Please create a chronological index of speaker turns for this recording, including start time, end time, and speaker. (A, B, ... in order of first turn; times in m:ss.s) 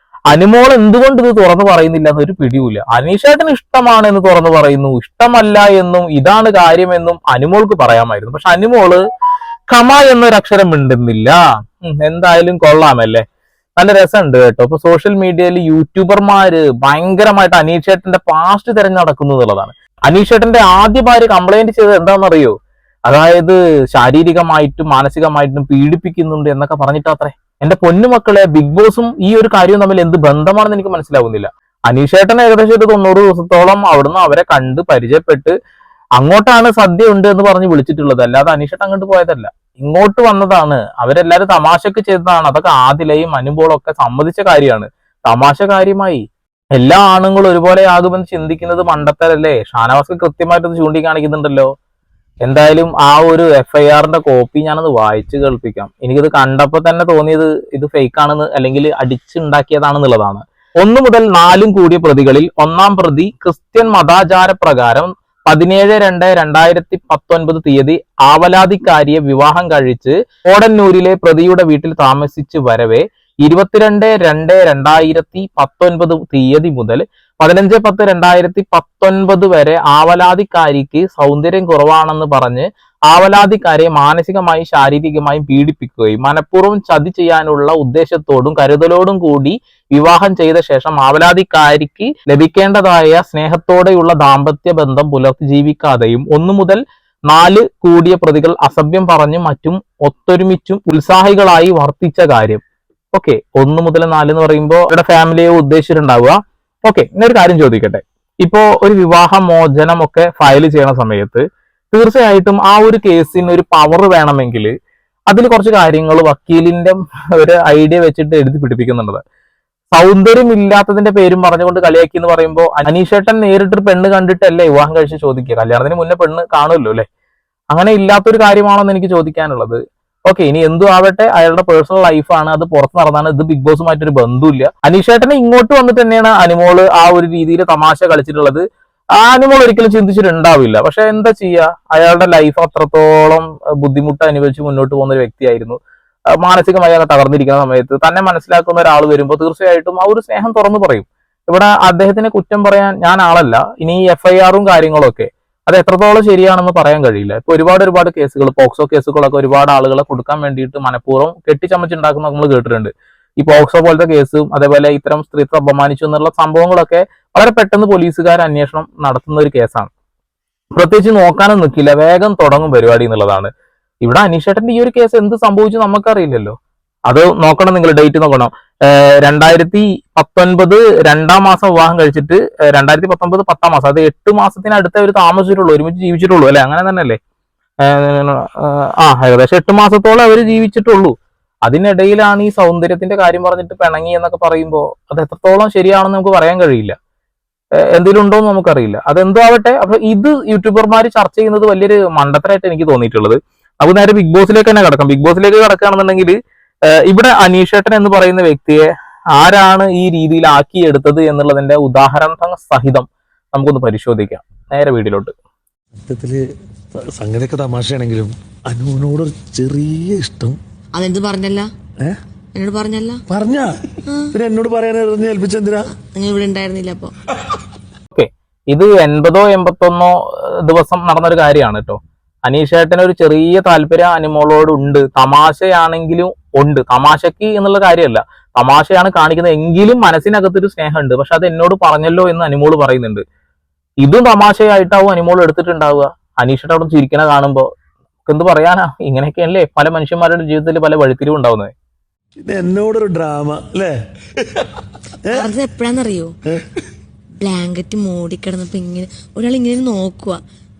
0:00.3-0:09.0 A
0:09.7-0:13.2 A
0:13.8-0:22.6 A
0:23.1-0:35.6 A
0:36.2-0:46.2 A
0:46.8-0:51.7 A
0:52.4-1:54.7 A
1:55.3-1:59.2 A
1:59.9-2:07.0 A
2:07.7-2:18.6 A
2:19.2-2:25.8 A
2:26.4-2:49.9 A
2:50.7-2:53.5 A
2:54.0-2:56.6 A
2:57.1-3:07.2 A
3:07.8-3:11.1 A
3:11.6-3:17.0 A
3:17.9-3:26.4 A
3:26.9-3:35.3 A
3:36.0-3:40.6 B
3:40.9-3:41.7 C
3:42.5-3:43.2 C
3:43.3-3:45.9 B
3:44.0-3:44.4 C
3:45.9-3:47.1 C
3:48.1-4:03.2 A
4:04.0-4:07.7 A
4:08.2-4:11.7 A
4:12.4-4:15.5 B
4:15.3-4:16.3 C
4:16.5-4:16.8 B
4:17.4-4:20.4 C